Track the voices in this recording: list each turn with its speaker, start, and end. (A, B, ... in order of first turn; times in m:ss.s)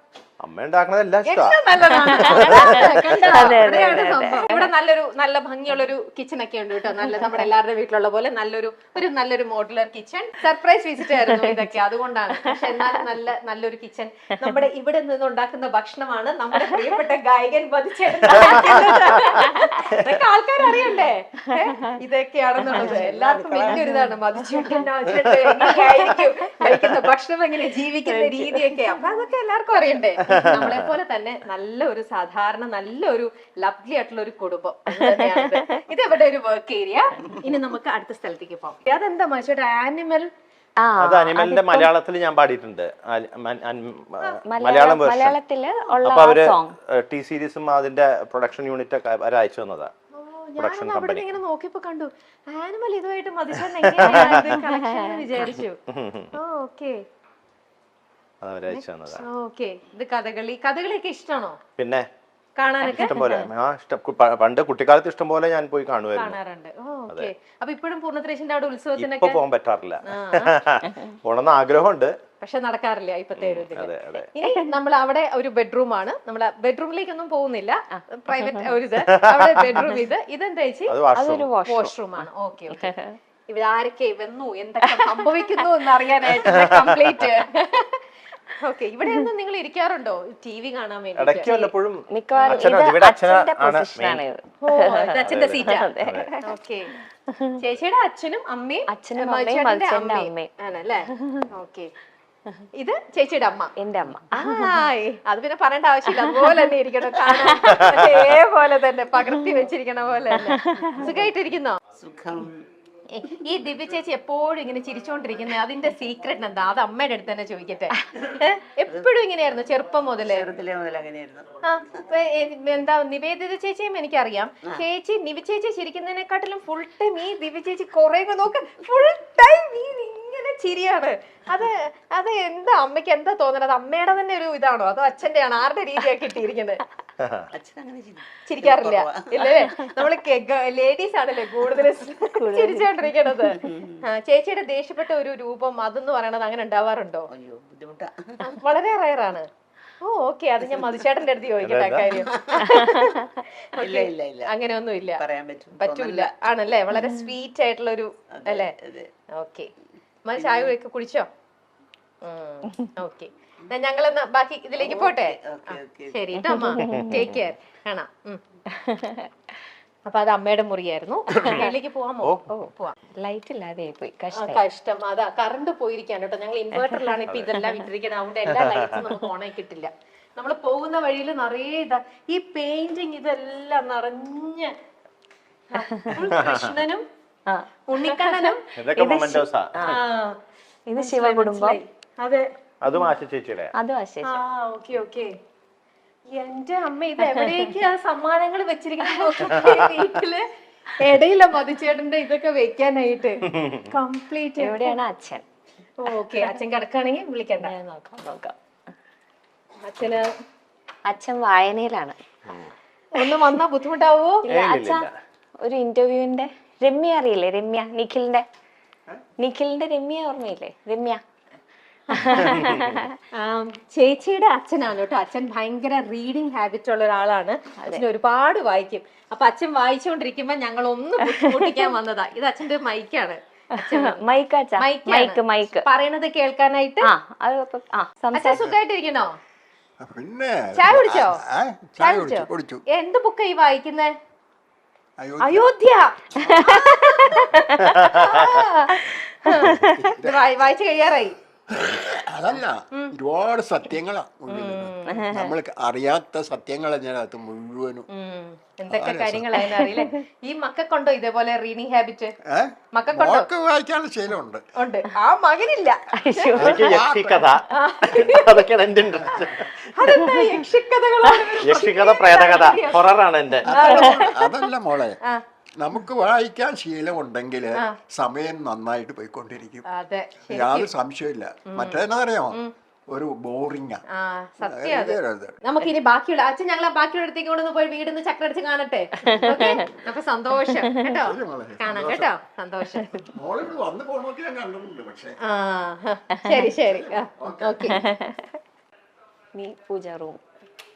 0:00.4-0:03.3 A
0:01.2-0:40.3 B
0:02.3-0:02.6 C
0:03.2-0:04.6 C
0:11.2-0:11.5 C
0:12.4-0:13.0 C
0:18.4-0:18.7 C
0:18.4-0:19.0 A
0:19.3-0:19.6 C
0:22.7-0:23.9 D
0:22.7-0:23.0 C
0:23.6-0:24.0 C
0:25.1-0:25.8 A
0:25.7-0:26.2 C
0:26.7-0:26.9 A
0:30.2-0:30.9 A
0:35.0-0:35.4 C
0:40.8-0:41.9 C
0:41.0-0:45.4 A
0:44.4-0:46.8 C
0:46.0-0:49.9 A
0:50.1-0:55.8 B
0:50.6-0:51.2 A
0:54.0-0:54.6 A
0:54.0-0:55.2 C
0:55.9-0:56.3 A
0:56.3-0:57.0 B
0:58.4-0:59.2 A
0:58.7-1:01.6 B
1:01.8-1:02.1 A
1:02.6-1:03.2 B
1:02.9-1:03.5 C
1:02.9-1:06.4 A
1:06.1-1:09.4 B
1:09.0-1:12.1 A
1:10.1-1:10.6 B
1:12.4-1:20.9 B
1:13.4-1:14.2 A
1:14.4-1:14.7 C
1:17.9-1:18.6 C
1:19.2-1:19.8 A
1:20.9-1:21.5 A
1:21.1-1:22.2 C
1:21.7-1:22.9 B
1:22.8-1:23.1 C
1:23.5-1:28.0 B
1:24.9-1:25.6 C
1:26.3-1:27.3 A
1:28.5-1:31.6 B
1:31.2-1:34.2 A
1:31.4-1:36.4 C
1:32.4-1:32.7 B
1:34.6-1:35.9 B
1:35.2-1:36.3 A
1:36.4-1:36.9 B
1:37.3-1:37.6 C
1:37.6-1:41.9 B
1:38.9-1:40.5 C
1:41.2-1:41.5 C
1:42.7-1:43.7 B
1:43.8-1:44.7 C
1:44.3-1:51.8 B
1:46.4-1:46.7 C
1:47.3-1:47.6 C
1:50.5-1:51.1 C
1:52.0-1:52.6 D
1:53.1-2:00.5 B
2:00.2-2:01.5 D
2:01.6-2:16.8 B
2:17.2-2:17.5 A
2:17.5-2:19.4 D
2:18.4-2:27.3 B
2:22.4-2:23.1 C
2:23.7-2:24.0 D
2:27.3-2:28.4 D
2:28.4-2:29.5 B
2:30.0-2:38.7 B
2:31.6-2:32.1 A
2:33.8-2:34.5 D
2:35.2-2:36.3 D
2:38.4-2:39.1 D
2:39.3-2:39.7 B
2:40.2-2:41.3 B
2:40.4-2:40.7 D
2:42.2-2:48.4 B
2:44.8-2:46.2 D
2:46.4-2:47.3 C
2:46.8-2:47.4 A
2:48.7-2:49.3 C
2:50.1-2:52.9 B
2:51.4-2:51.6 A
2:52.2-2:52.5 A
2:52.5-2:54.6 C
2:54.4-3:04.7 B
2:56.8-2:57.8 C
3:05.7-3:07.0 B
3:06.4-3:06.7 A
3:07.5-3:10.0 C
3:07.9-3:08.7 B
3:08.8-3:10.0 A
3:09.8-3:10.4 B
3:10.9-3:11.8 C
3:11.0-3:12.4 B
3:12.8-3:13.7 A
3:13.8-3:14.4 C
3:14.2-3:15.3 B
3:16.3-3:20.4 B
3:19.7-3:20.0 A
3:21.0-3:24.9 B
3:23.5-3:23.8 A
3:24.6-3:25.4 C
3:26.0-3:27.7 B
3:27.6-3:28.6 C
3:29.8-3:30.2 B
3:31.1-3:32.2 C
3:33.1-3:34.4 B
3:34.4-3:35.1 C
3:34.5-3:35.1 A
3:35.6-3:38.4 C
3:39.4-3:41.2 C
3:42.1-3:42.6 B
3:42.1-3:43.1 C
3:42.3-3:43.0 A
3:43.3-3:54.2 B
3:51.3-3:51.9 C
3:53.8-3:55.9 C
3:54.8-3:57.1 B
3:57.0-3:58.7 C
3:58.3-3:59.4 B
4:00.0-4:02.8 E
4:00.8-4:01.4 B
4:02.0-4:04.1 B
4:05.2-4:05.7 E
4:05.4-4:11.4 B
4:06.4-4:08.1 C
4:07.9-4:08.6 A
4:09.5-4:10.4 E
4:09.6-4:10.0 C
4:11.7-4:18.1 E
4:14.5-4:15.3 B
4:15.1-4:15.5 C
4:18.1-4:22.3 B
4:18.9-4:19.7 E
4:22.5-4:24.6 E
4:22.9-4:23.5 B
4:24.8-4:26.9 B
4:26.2-4:27.0 C
4:26.6-4:27.5 E
4:26.6-4:30.1 A
4:27.7-4:28.7 B
4:29.4-4:34.2 B
4:30.1-4:30.4 C
4:31.6-4:33.8 A
4:33.6-4:35.2 E
4:33.8-4:34.3 C
4:35.8-4:39.8 E
4:39.9-4:40.9 B
4:40.5-4:42.6 E
4:41.7-4:42.7 B
4:43.1-4:44.0 E
4:44.1-4:53.2 B
4:44.6-4:45.6 E
4:49.2-4:49.8 C
4:51.2-4:52.3 E
4:53.3-4:55.4 E
4:55.4-4:58.0 B
4:56.4-4:56.7 C
4:56.8-4:57.9 E
4:57.9-4:58.5 C
4:59.5-5:00.4 C